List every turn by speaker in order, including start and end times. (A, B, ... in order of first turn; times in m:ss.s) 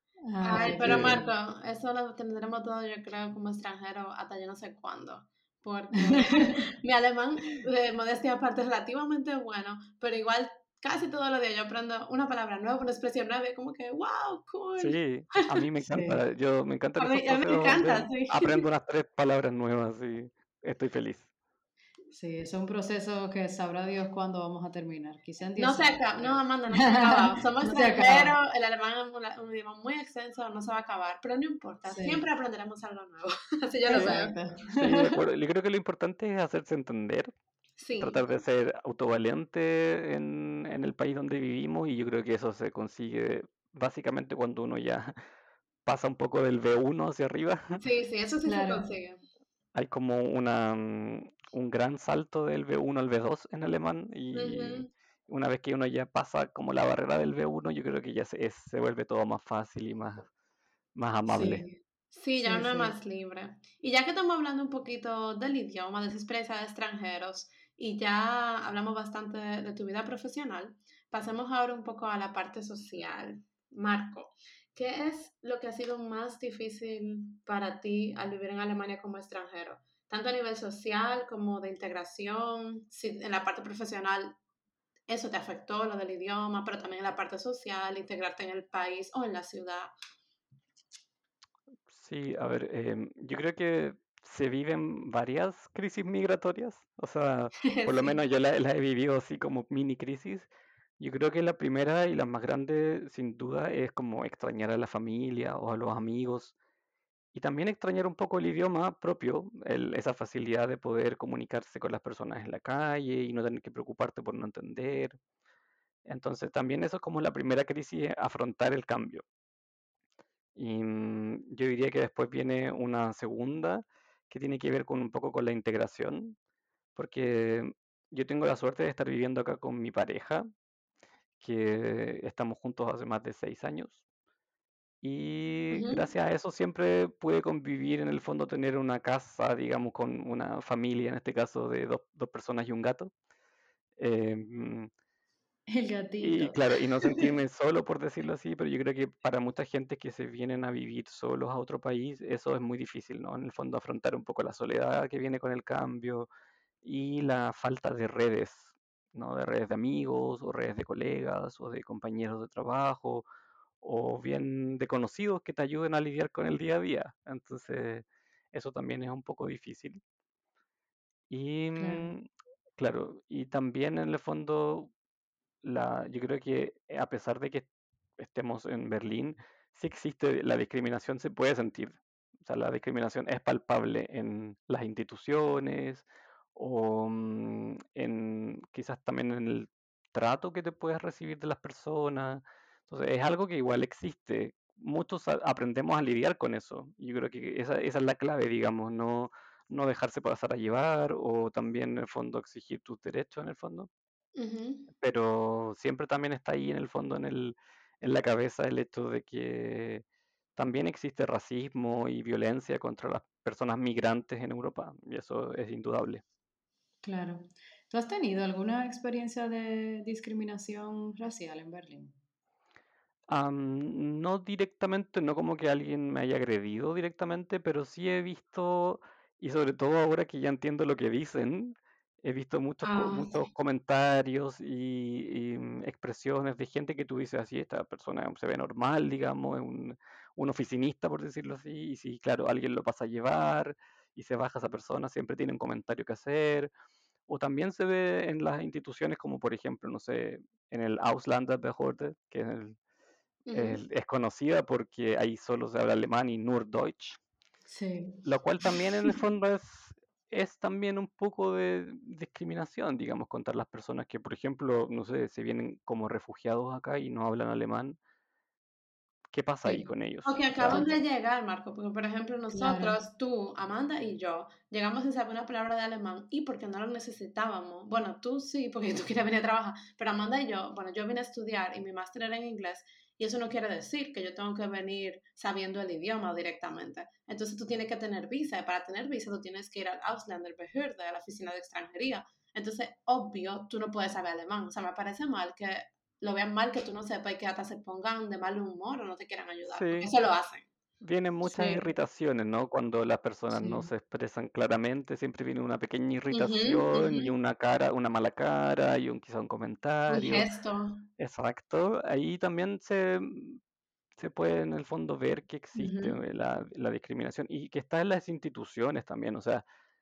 0:00.3-0:01.3 A
0:00.4-0:15.6 B
0:00.6-0:01.2 C
0:06.0-0:06.6 A
0:14.8-0:21.3 C
0:15.9-0:16.2 A
0:17.0-0:18.6 B
0:22.1-0:28.4 A
0:25.6-0:34.3 B
0:31.9-0:32.2 A
0:33.9-0:35.0 A
0:34.8-0:37.3 C
0:37.8-0:38.3 B
0:38.0-0:45.1 C
0:45.8-0:47.8 C
0:47.8-0:49.2 B
0:48.4-0:48.8 A
0:49.7-1:00.3 C
0:54.3-0:54.9 B
1:00.9-1:01.6 C
1:01.3-1:01.8 A
1:02.1-1:24.3 B
1:02.4-1:02.9 A
1:25.1-1:29.9 B
1:31.9-1:46.5 C
1:37.7-1:38.2 B
1:47.3-1:55.2 C
1:56.0-1:59.2 C
2:00.6-2:06.4 C
2:07.0-2:10.5 C
2:11.4-2:14.0 C
2:15.0-2:23.1 C
2:15.7-2:16.0 B
2:24.0-2:24.9 C
2:25.7-2:27.2 A
2:26.2-2:36.3 C
2:36.8-2:43.2 C
2:43.8-2:50.0 C
2:51.3-2:54.9 C
2:51.8-2:52.1 A
2:55.6-3:23.9 C
3:24.4-3:24.9 B
3:24.9-3:30.0 C
3:30.6-3:36.2 C
3:37.0-3:42.1 A
3:43.3-4:06.7 C
3:52.8-3:53.3 B
4:07.3-4:12.8 C
4:13.5-4:13.8 B
4:13.5-4:17.2 C
4:17.7-4:18.2 A
4:18.2-4:28.0 C
4:29.3-4:30.8 C
4:29.6-4:29.9 A
4:30.2-5:00.7 B
4:30.7-4:31.0 A
4:32.5-4:33.0 A
4:59.7-5:00.1 C
5:01.0-5:10.5 C
5:01.5-5:01.8 A
5:03.5-5:03.9 A
5:06.3-5:07.3 B
5:10.1-5:11.0 B
5:11.2-5:13.6 C
5:14.2-5:19.6 C
5:15.7-5:16.2 A